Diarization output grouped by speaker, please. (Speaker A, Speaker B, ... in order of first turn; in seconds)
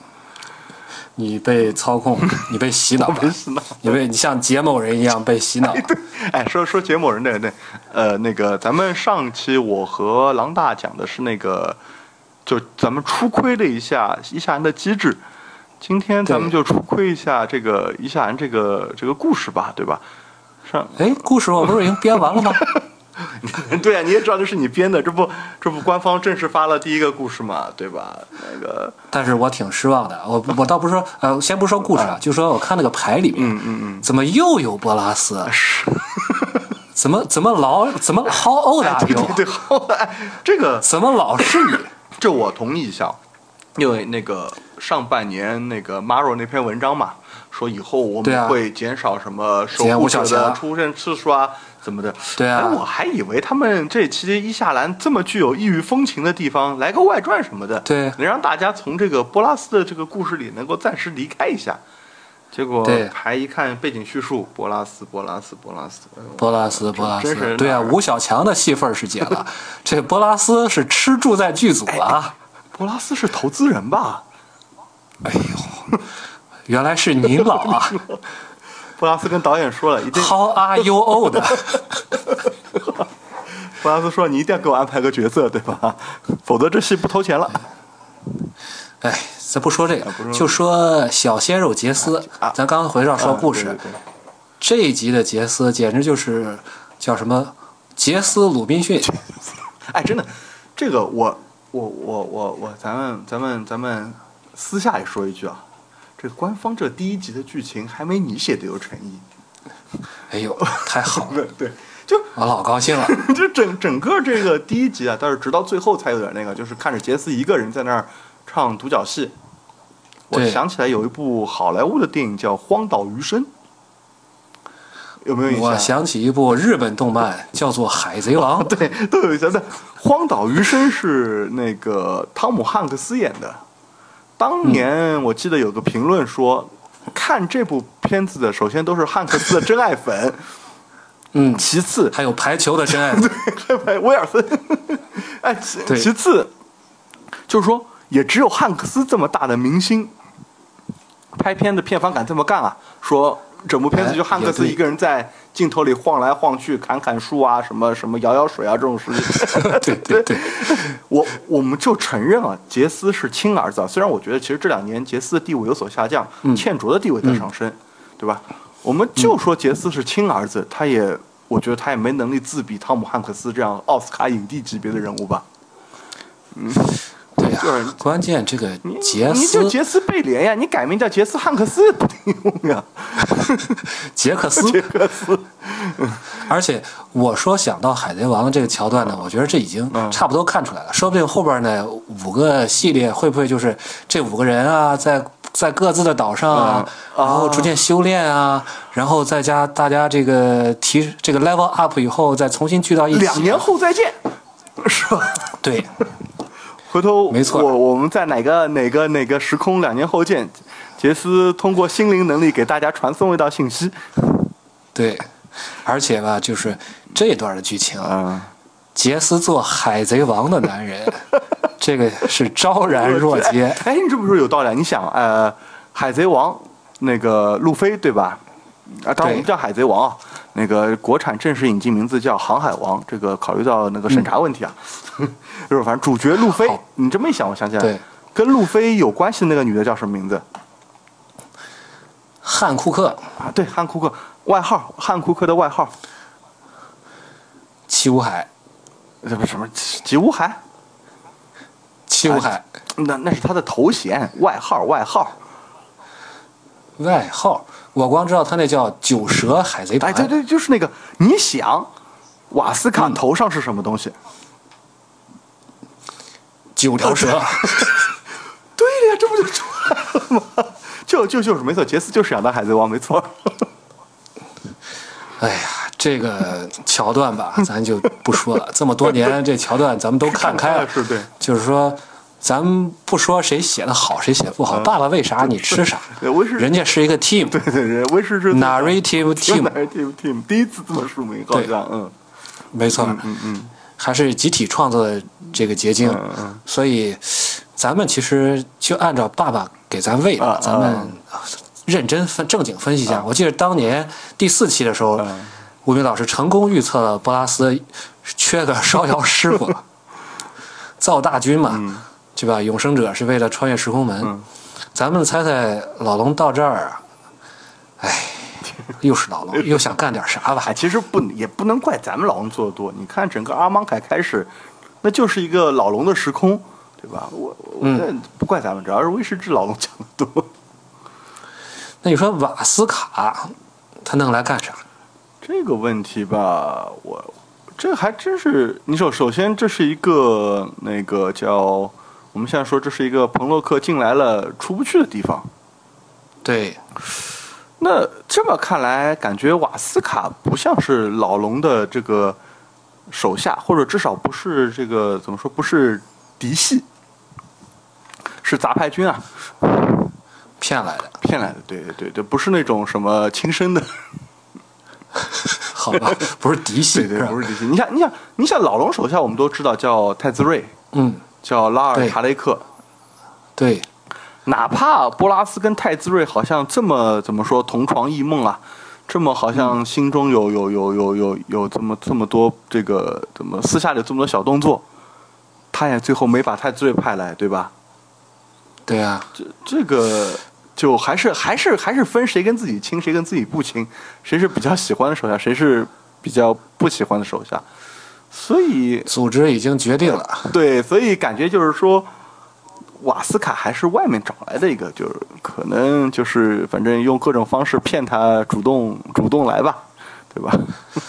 Speaker A: 1.2-5.9, 16.3-16.5, 21.0-22.6, 29.1-35.5, 36.9-39.4, 40.8-41.9, 48.2-48.6, 49.8-50.6, 52.4-52.8, 57.9-58.2, 62.8-63.1, 66.4-72.3, 75.2-75.7, 76.7-78.0, 80.1-82.2, 89.0-93.8, 94.6-99.1, 110.3-111.4, 112.4-113.2, 120.3-120.6, 125.5-128.7, 141.3-143.3, 153.9-154.8, 159.3-160.8, 177.4-179.8, 183.9-184.9, 186.3-203.7, 205.6-205.9, 207.3-207.7, 214.9-215.3, 215.8-218.2, 218.9-221.2, 221.8-223.8, 229.2-229.5, 242.4-243.2, 247.9-248.5, 252.1-252.7, 257.0-260.3, 266.8-267.9, 275.4-287.6, 288.5-289.7, 292.7-293.2, 294.0-305.3, 305.9-309.8, 311.0-314.3, 314.9-317.0, 318.0-320.7, 327.8-328.1, 332.0-334.8, 346.4-346.8, 360.6-361.1, 365.5-367.4, 370.9-371.2, 373.6-373.9, 388.9-389.3, 399.1-400.5
Speaker B: 3.0-3.9, 5.6-11.8, 12.5-15.2, 15.8-20.0, 20.7-29.0, 33.4-34.1, 35.5-36.6, 38.8-40.9, 41.4-43.2, 43.8-61.8, 62.5-68.0, 71.9-72.2, 72.8-74.2, 79.0-80.4, 83.6-87.6, 90.0-90.6, 92.2-92.6, 93.2-94.0, 99.9-105.6, 106.2-109.2, 110.6-112.3, 112.9-119.3, 120.3-123.5, 125.2-125.9, 128.4-133.6, 134.4-140.4, 141.6-142.2, 142.9-146.5, 147.5-150.1, 151.4-175.4, 176.5-178.0, 178.8-183.9, 184.5-186.3, 189.9-190.2, 196.5-197.8, 203.1-204.2, 204.8-205.5, 206.9-214.4, 218.0-218.5, 222.9-240.4, 243.4-245.9, 249.2-250.6, 252.2-255.3, 260.0-261.9, 262.5-264.1, 267.1-268.0, 268.8-273.7, 280.3-281.3, 284.7-286.7, 287.5-292.1, 292.9-293.7, 296.0-296.6, 300.4-301.1, 305.2-305.5, 311.7-312.0, 320.6-324.5, 325.0-330.5, 335.4-345.5, 347.8-352.4, 353.1-356.9, 358.4-360.0, 361.2-363.9, 365.9-366.2, 366.9-370.7, 371.4-372.6, 374.5-384.8, 385.7-387.7, 389.4-397.6, 398.3-399.1, 400.1-402.1, 403.0-410.8